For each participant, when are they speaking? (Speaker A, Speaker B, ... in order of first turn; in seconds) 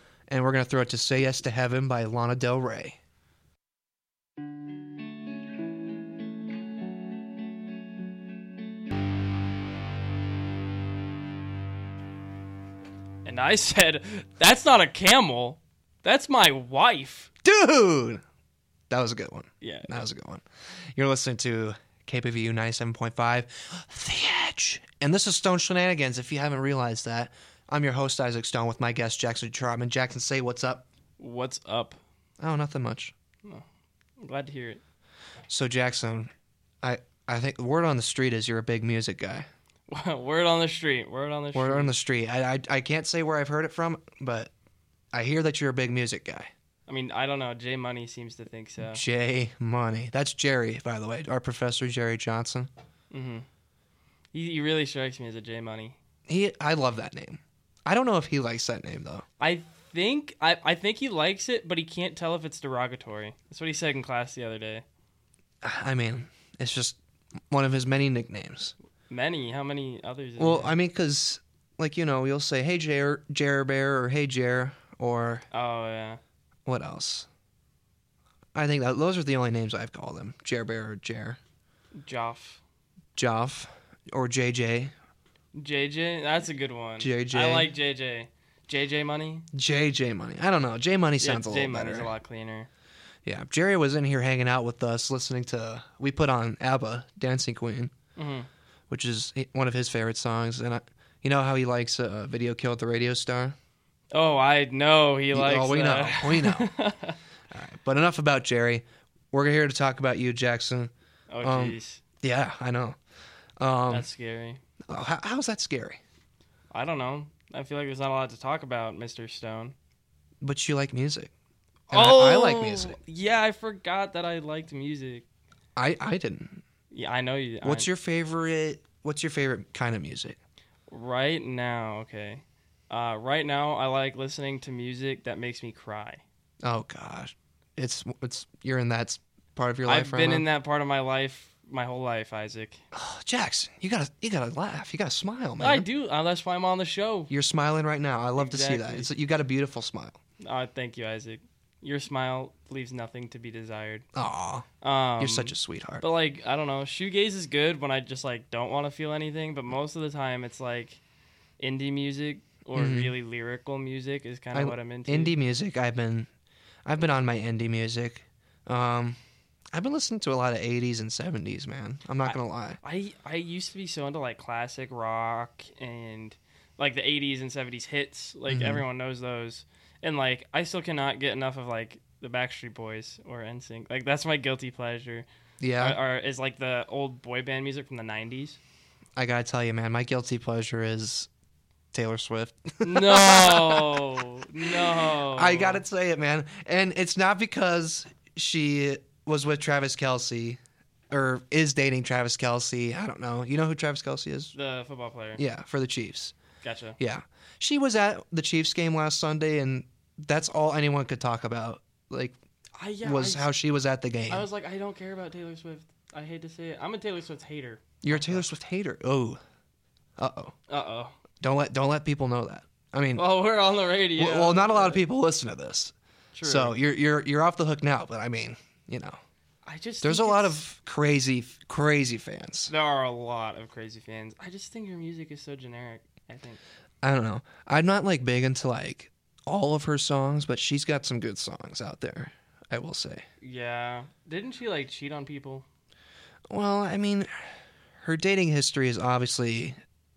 Speaker A: 0.3-3.0, 17.4-18.2, 18.9-20.4, 20.9-30.9, 32.4-33.1, 35.5-36.3, 36.8-39.5, 41.5-44.5, 45.1-46.5, 48.9-52.7, 56.3-59.2, 65.6-67.0, 67.5-68.7, 70.4-75.4, 76.7-77.3, 78.5-81.4, 83.2-84.9, 87.0-87.7, 89.5-92.1, 93.2-97.9, 98.9-103.6, 105.3-106.7, 107.5-110.9, 111.4-113.0, 113.6-114.1, 114.9-116.0, 120.4-121.3, 121.9-123.0, 125.8-126.6, 127.6-130.4, 136.6-140.5, 142.9-145.9, 147.3-150.2, 154.1-154.7, 155.2-156.0, 162.8-163.1, 164.5-166.3, 166.8-169.2, 169.7-172.8, 178.5-178.8, 185.6-186.0, 189.2-191.3, 191.9-194.0, 194.7-204.5, 205.4-206.3, 207.0-212.4, 213.0-214.5, 218.0-219.4, 220.2-220.5, 221.4-223.2, 224.2-229.2, 230.0-232.7, 237.0-243.2, 246.5-249.8
Speaker B: 13.2-17.3, 19.6-19.9, 31.2-32.0, 34.2-34.8, 39.9-41.9, 46.9-49.0, 53.1-53.5, 54.3-56.0, 59.4-64.8, 69.1-70.8, 75.5-76.2, 82.0-82.6, 85.5-89.5, 91.2-92.7, 98.2-98.5, 104.1-107.2, 111.3-112.0, 113.9-114.6, 116.7-119.8, 121.9-125.3, 126.9-127.9, 130.9-136.2, 139.9-142.8, 145.6-147.3, 148.4-149.1, 150.4-154.1, 154.8-161.0, 161.6-165.3, 172.2-185.3, 185.8-188.6, 192.8-195.8, 204.5-205.4, 206.6-207.0, 212.8-213.5, 214.3-218.4, 220.7-221.2, 223.2-225.0, 226.3-226.8, 229.7-230.6, 232.7-236.6, 243.4-245.7